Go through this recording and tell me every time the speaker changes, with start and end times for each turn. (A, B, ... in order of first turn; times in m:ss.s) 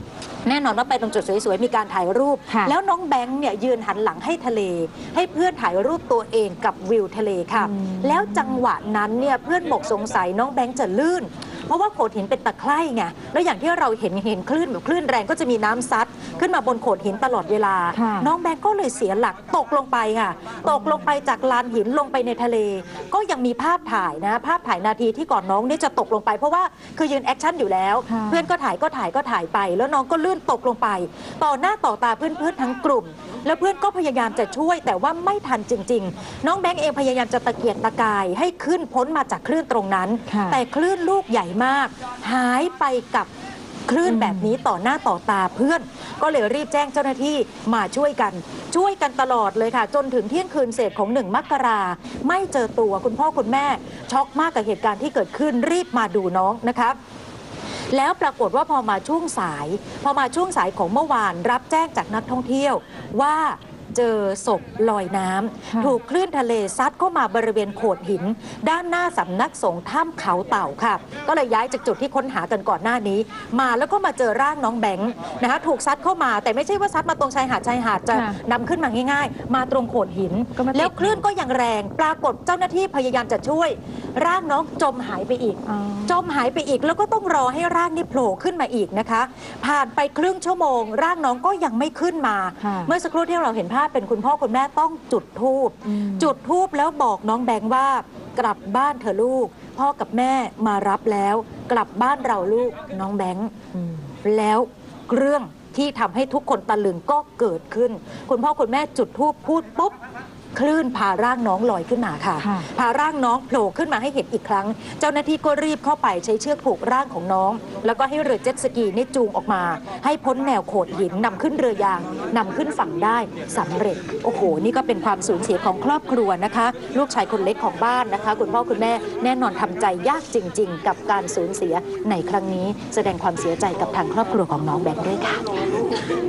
0:00.4-0:43.3 A
0:02.5-0:02.7 B
0:07.6-0:08.6 B
0:17.9-0:18.3 B
0:20.7-0:21.0 B
0:28.0-0:28.5 B
0:40.3-0:40.6 B
0:43.9-0:57.0 A
0:44.0-0:44.5 B
0:57.9-1:43.6 A
1:05.7-1:06.0 B
1:18.1-1:18.4 B
1:20.6-1:21.2 B
1:25.6-1:26.2 B
1:32.6-1:32.9 B
1:35.8-1:36.3 B
1:43.7-1:44.1 B
1:44.2-1:50.0 A
1:50.5-2:15.5 A
1:52.4-1:52.7 B